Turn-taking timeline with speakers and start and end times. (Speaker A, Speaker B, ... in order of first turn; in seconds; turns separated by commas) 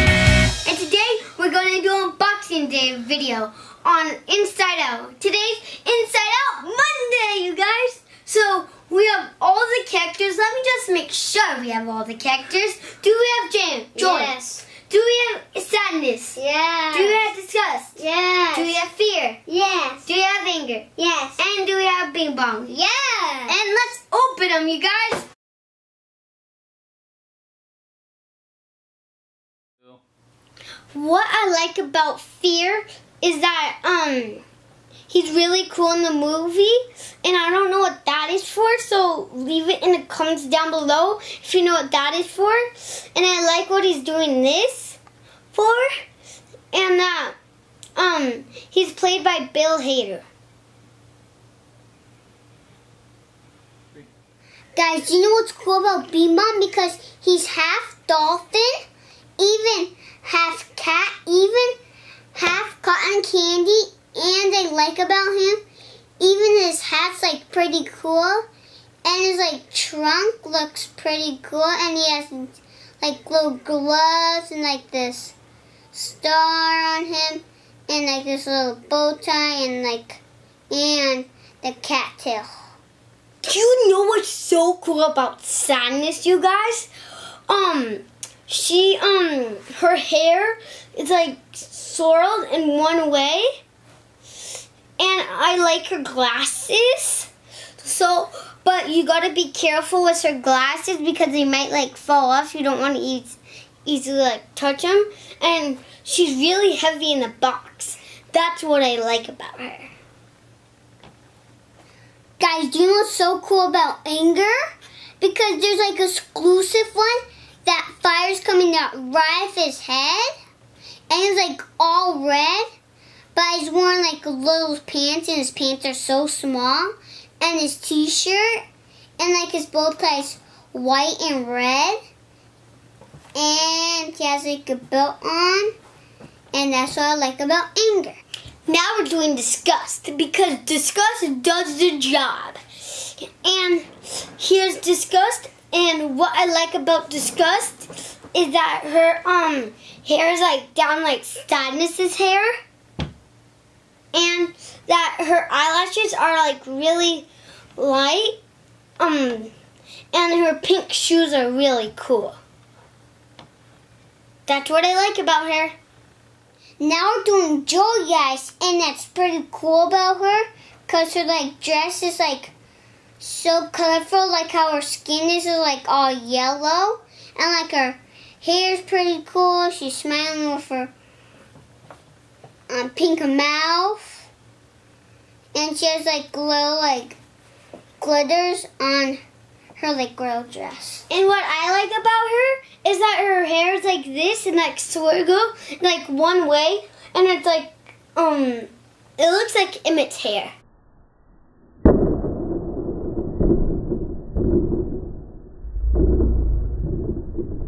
Speaker A: 0.6-16.4, Speaker B: 13.9-14.6, Speaker B: 16.4-17.3, Speaker A: 16.9-18.0, Speaker B: 18.0-18.8, Speaker A: 18.5-19.4, Speaker B: 19.5-20.1, Speaker A: 20.1-22.7, Speaker B: 21.0-21.4, Speaker B: 22.7-23.6, Speaker A: 23.5-25.3, Speaker A: 30.9-34.4, Speaker A: 35.1-45.0, Speaker A: 45.5-45.9, Speaker A: 46.7-47.4, Speaker A: 48.0-50.2, Speaker B: 54.8-58.8, Speaker B: 59.4-61.8, Speaker B: 62.3-65.6, Speaker B: 66.2-68.5, Speaker B: 69.0-75.3, Speaker B: 75.9-82.5, Speaker A: 83.4-86.9, Speaker A: 87.5-93.5, Speaker A: 95.0-109.9, Speaker B: 112.4-114.6, Speaker B: 115.2-120.3, Speaker B: 121.1-122.7, Speaker B: 123.3-128.6, Speaker B: 129.2-132.0, Speaker B: 133.3-135.7, Speaker B: 136.5-138.2, Speaker A: 138.7-152.6, Speaker A: 154.1-158.4, Speaker A: 159.0-159.5, Speaker A: 160.1-162.4, Speaker A: 164.5-165.8, Speaker B: 166.8-172.5, Speaker B: 173.2-180.9, Speaker B: 182.7-184.3, Speaker B: 185.5-187.2, Speaker B: 188.0-189.2, Speaker B: 189.8-191.1, Speaker A: 191.1-200.5